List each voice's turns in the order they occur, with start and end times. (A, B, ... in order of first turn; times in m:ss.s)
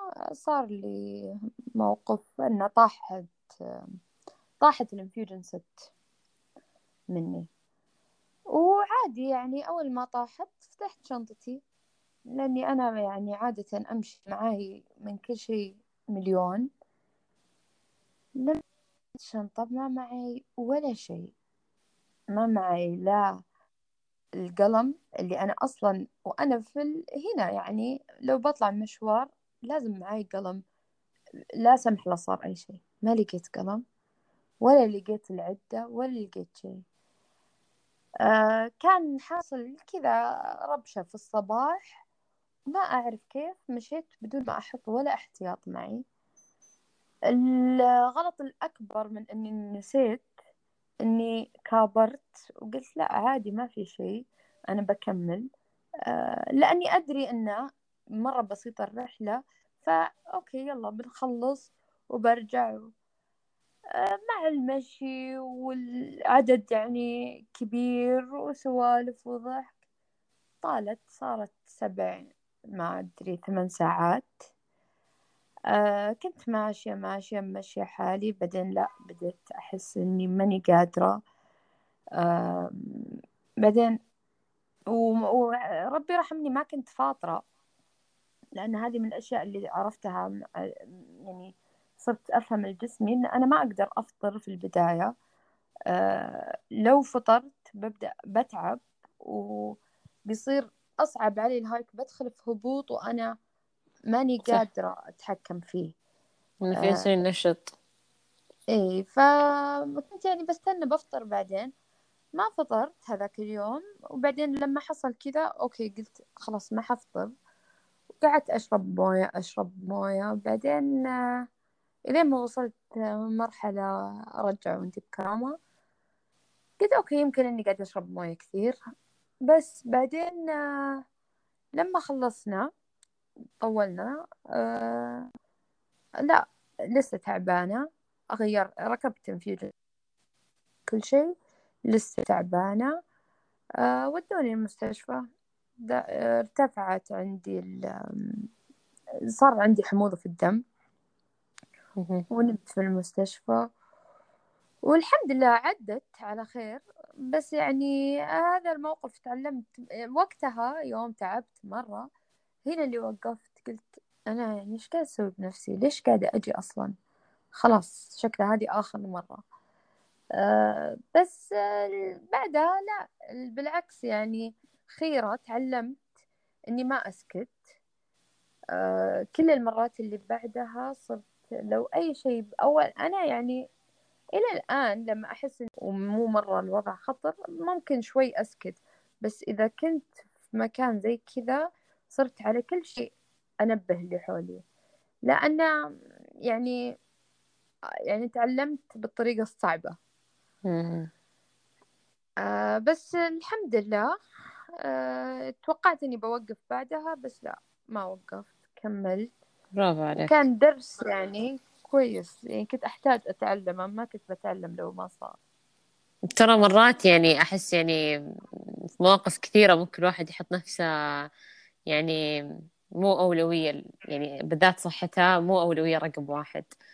0:00.4-0:01.0 A
0:01.8-0:03.9 A
0:04.6-0:05.9 A
0:07.1-0:07.5 A
0:08.5-0:11.6 A
0:12.3-0:16.7 A
0:19.2-0:21.3 A
0:22.3-0:23.4 A
0:24.4-0:30.6 A
0:31.6-0:33.8 A
0:34.6-0:36.8 A
0:38.2-0:42.0 A
0:42.7-0:46.0 A
0:47.3-0:50.3 A
0:51.0-0:55.4 A
0:56.1-0:57.6 A
0:58.2-1:02.9 A
1:04.0-1:09.7 A
1:10.6-1:14.3 A
1:15.7-1:21.2 A
1:22.2-1:24.0 A
1:24.9-1:27.4 A
1:28.6-1:35.1 A
1:35.9-1:39.8 A
1:40.3-1:43.3 A
1:44.1-1:45.9 A
1:46.6-1:47.7 B
1:46.7-1:47.0 A
1:48.7-1:51.7 A
1:52.3-1:57.3 A
1:58.2-2:01.2 A
2:02.1-2:03.9 A
2:04.4-2:05.5 A
2:06.8-2:08.8 A
2:09.5-2:11.0 A
2:11.8-2:12.7 A
2:13.6-2:15.2 A
2:16.2-2:19.7 A
2:20.9-2:21.3 A
2:21.9-2:22.9 A
2:23.8-2:25.3 A
2:25.8-2:28.5 A
2:29.4-2:30.6 A
2:32.0-2:32.2 B
2:32.3-2:33.6 A
2:34.9-2:42.1 A
2:42.6-2:46.9 A
2:47.6-2:49.4 A
2:50.4-2:55.9 A
2:56.7-2:57.6 A
2:58.8-3:03.6 A
3:04.4-3:11.6 A
3:12.1-3:13.0 A
3:13.6-3:14.6 A
3:15.3-3:15.7 A
3:16.5-3:16.8 A
3:18.1-3:20.0 A
3:20.6-3:21.1 B
3:22.4-3:24.1 A
3:24.8-3:29.3 A
3:29.8-3:30.3 B
3:30.2-3:35.4 A
3:36.3-3:38.0 B
3:38.6-3:40.9 B
3:41.9-3:42.2 B
3:43.0-3:46.7 B